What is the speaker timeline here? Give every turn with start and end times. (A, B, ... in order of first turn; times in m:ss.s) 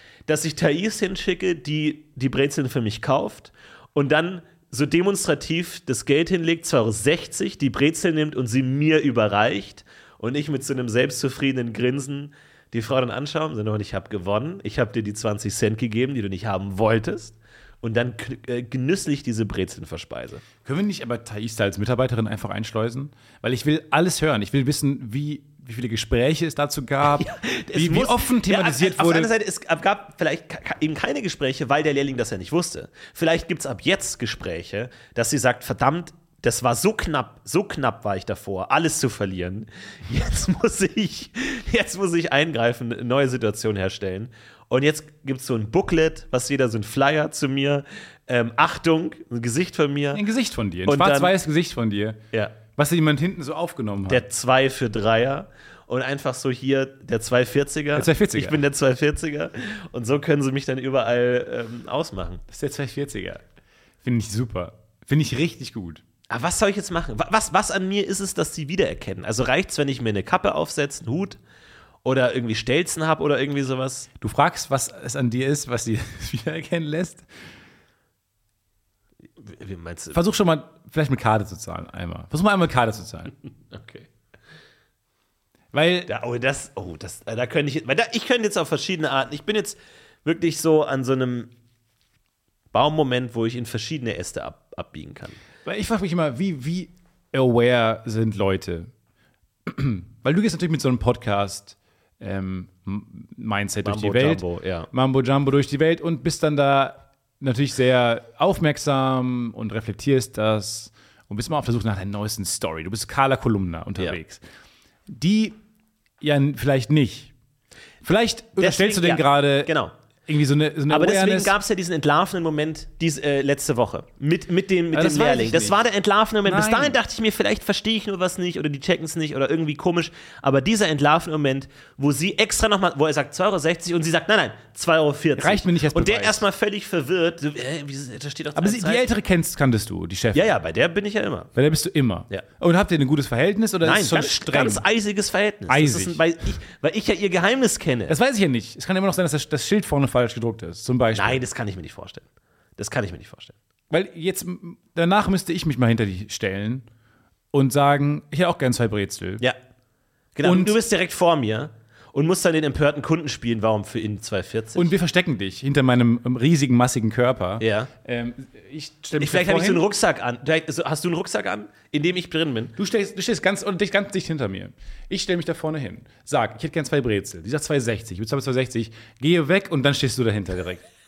0:00.3-0:20.4 A
0:20.6-0:29.3 B
0:27.1-0:50.2 A
0:50.1-0:52.2 B
0:50.8-0:51.3 A
0:52.7-0:54.2 B
0:54.1-1:02.4 A
0:58.0-0:58.6 B
1:02.5-1:03.4 B
1:04.0-1:06.0 B
1:06.3-1:11.4 A
1:12.0-1:14.1 A
1:14.2-1:17.3 B
1:19.4-1:20.2 A
1:20.1-1:23.3 B
1:23.7-1:24.1 A
1:25.7-1:26.1 B
1:26.1-1:31.5 A
1:32.7-1:35.4 A
1:35.6-1:38.9 B
1:39.7-1:54.4 B
1:43.8-1:44.9 A
1:55.1-1:55.6 B
1:56.2-1:57.3 B
1:58.0-1:59.7 B
1:58.6-1:59.9 A
2:00.3-2:01.5 B
2:00.9-2:19.1 A
2:04.9-2:05.8 B
2:06.4-2:07.0 B
2:15.4-2:16.4 B
2:18.6-2:20.5 B
2:20.3-2:21.5 A
2:21.6-2:24.8 B
2:23.8-2:28.2 A
2:25.7-2:26.2 B
2:28.1-2:31.4 B
2:31.2-2:32.2 A
2:32.8-2:33.6 A
2:33.9-2:36.8 B
2:37.5-2:39.4 B
2:40.4-2:44.9 A
2:40.4-2:40.8 B
2:44.8-2:49.8 B
2:47.6-2:47.9 A
2:49.2-2:52.8 A
2:52.8-3:00.8 B